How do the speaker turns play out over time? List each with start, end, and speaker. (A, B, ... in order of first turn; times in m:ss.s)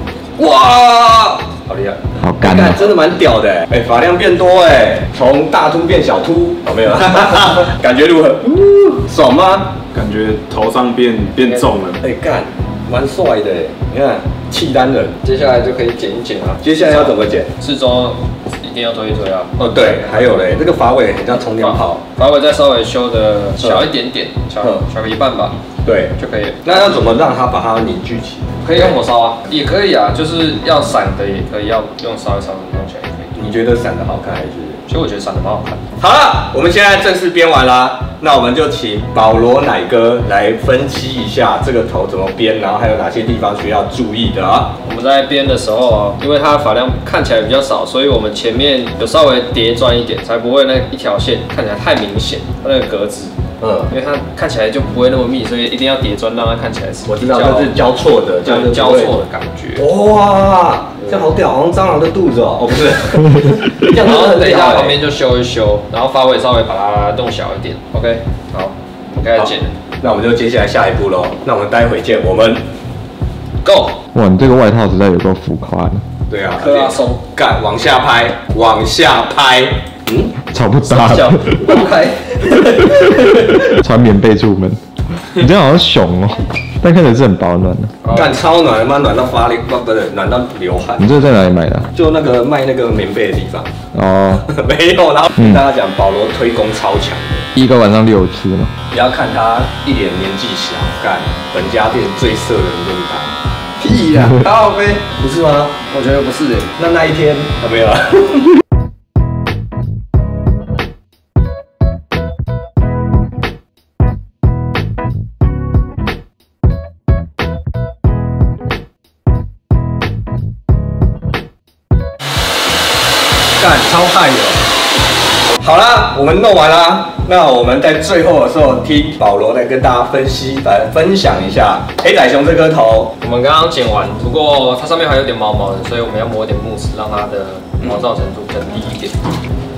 0:00.4-0:09.8 A
0:02.2-0:02.8 B
0:09.9-0:12.0 C
0:11.4-0:11.7 D
0:12.0-0:15.2 A
0:15.2-0:20.5 D
0:16.6-0:17.5 A
0:19.6-0:22.0 A
0:21.6-0:25.6 D
0:23.6-0:23.9 A
0:25.8-0:28.9 A
0:26.2-0:27.1 D
0:28.6-0:33.3 D
0:33.3-0:34.8 A
0:34.9-0:35.8 D
0:36.0-0:44.7 A
0:44.8-0:53.3 D
0:53.6-0:53.9 A
0:53.9-0:57.7 D
0:57.0-0:59.1 A
0:58.4-0:59.8 D
0:59.8-1:05.0 A
1:03.9-1:09.7 D
1:09.4-1:12.6 A
1:13.6-1:14.0 D
1:14.1-1:16.0 B
1:16.3-1:20.3 A
1:16.6-1:17.2 D
1:20.5-1:21.7 B
1:20.8-1:22.9 D
1:23.6-1:24.8 B
1:25.3-1:27.9 B
1:28.0-1:28.4 D
1:28.1-1:31.3 A
1:31.0-1:31.9 B
1:31.9-1:33.7 A
1:33.9-1:34.4 B
1:34.4-1:37.5 A
1:37.6-1:38.7 B
1:38.9-1:45.8 A
1:43.8-1:44.8 D
1:45.9-1:46.7 D
1:46.7-1:48.5 A
2:03.6-2:04.6 A
2:05.6-2:13.1 A
2:13.2-2:19.2 D